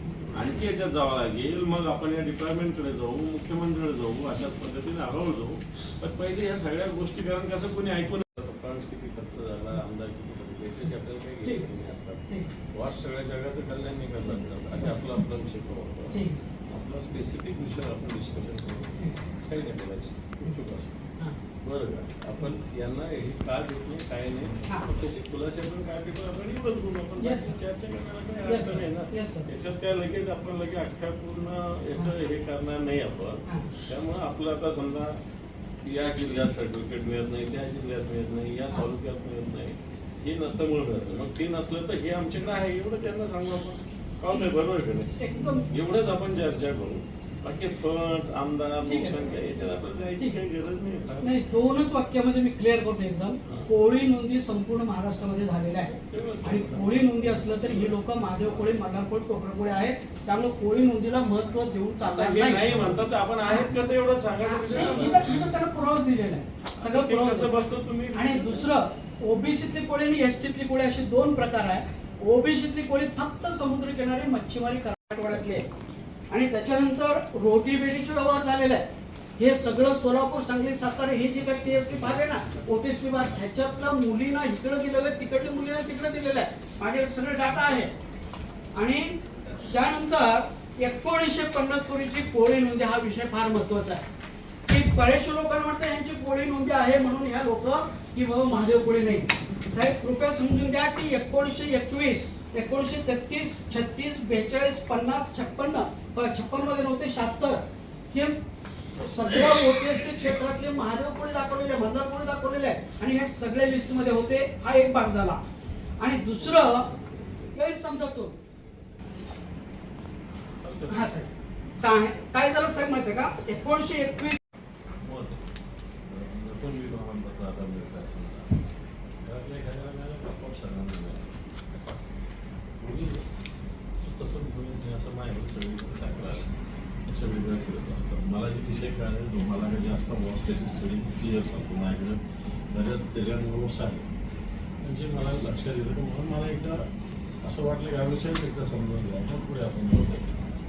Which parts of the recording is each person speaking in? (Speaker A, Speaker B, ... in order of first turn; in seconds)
Speaker A: 0.3-20.9, 21.6-35.2, 35.9-51.3, 53.4-53.7, 55.9-58.9, 62.0-65.5, 66.8-68.7, 81.9-82.2, 116.4-117.5, 120.6-121.2, 125.0-125.4, 126.1-128.5, 129.2-131.9, 132.8-133.2, 134.0-136.5, 137.1-144.1, 144.8-146.8, 147.4-150.3
Speaker B: 11.4-11.7, 16.1-16.4, 27.2-27.6, 28.4-29.5, 45.2-45.7, 48.8-49.3, 51.2-63.7, 64.4-67.6, 68.1-75.7, 76.3-78.8, 79.4-87.9, 88.8-94.1, 94.7-108.4, 109.0-115.4, 116.0-116.9, 117.5-118.4, 120.9-121.3, 121.8-124.4